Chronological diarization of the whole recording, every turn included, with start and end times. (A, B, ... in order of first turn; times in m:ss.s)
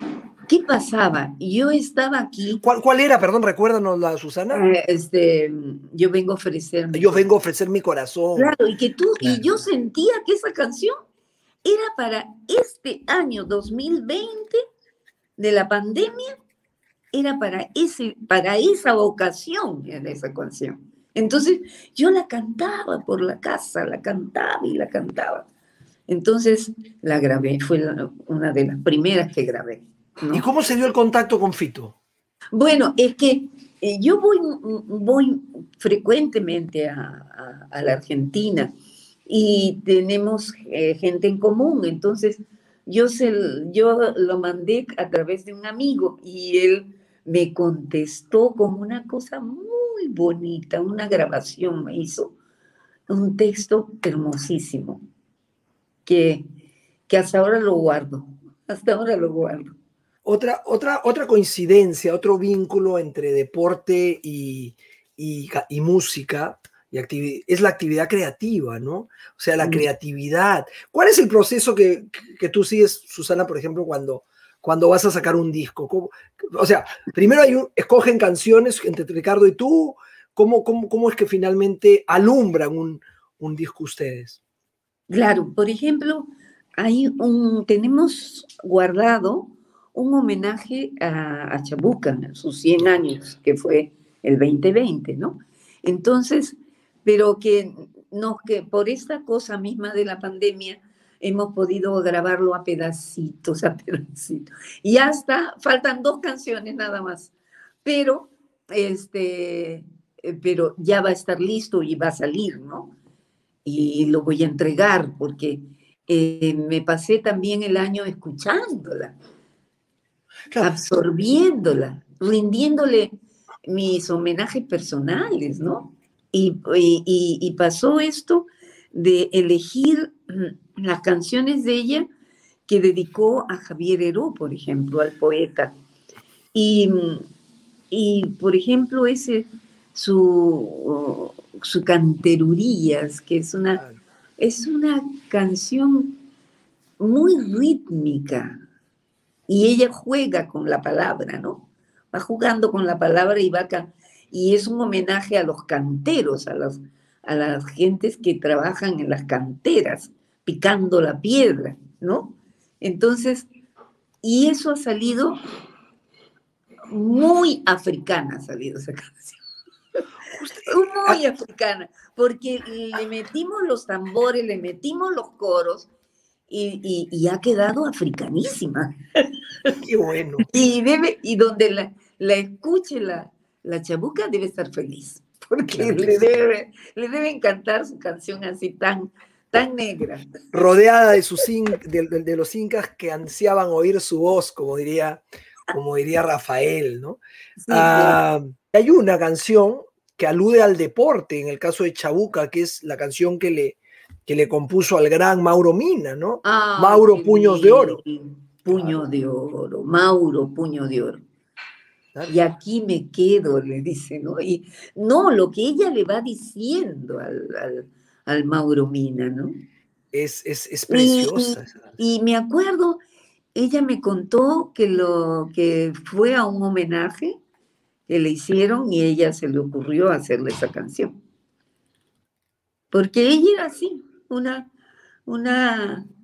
0:00.5-0:02.6 A
0:02.6-0:04.6 B
0:04.5-0:07.3 A
0:06.9-0:08.5 B
0:08.4-0:10.9 A
0:09.2-0:09.6 B
0:11.6-0:14.6 A
0:15.4-0:16.3 A
0:17.1-0:25.5 A
0:26.1-0:30.5 A
0:30.3-0:32.0 B
0:32.5-0:38.7 A
0:39.3-0:52.3 A
0:53.1-0:55.0 A
0:56.1-0:56.4 A
0:57.1-0:59.7 A
1:00.2-1:24.4 B
1:25.1-1:47.3 A
1:47.8-1:53.0 A
1:53.6-1:59.2 A
2:00.6-2:03.1 A
2:03.7-2:12.1 A
2:12.7-2:15.7 A
2:16.5-2:17.3 A
2:17.9-2:23.8 A
2:24.4-2:26.2 A
2:27.0-2:28.6 A
2:29.5-2:43.5 A
2:44.2-2:45.4 A
2:46.9-2:49.4 A
2:50.3-2:51.2 B
2:50.7-2:55.9 A
2:56.5-2:59.7 A
2:59.8-3:00.4 B
3:00.5-3:10.5 A
3:05.7-3:06.4 B
3:10.5-3:28.0 B
3:17.6-3:18.2 A
3:26.4-3:31.2 A
3:28.7-3:29.0 B
3:32.3-3:39.5 A
3:40.1-3:41.9 B
3:40.9-3:43.0 A
3:43.6-3:47.4 A
3:48.1-3:51.1 A
3:52.9-3:54.7 A
3:55.3-3:56.1 A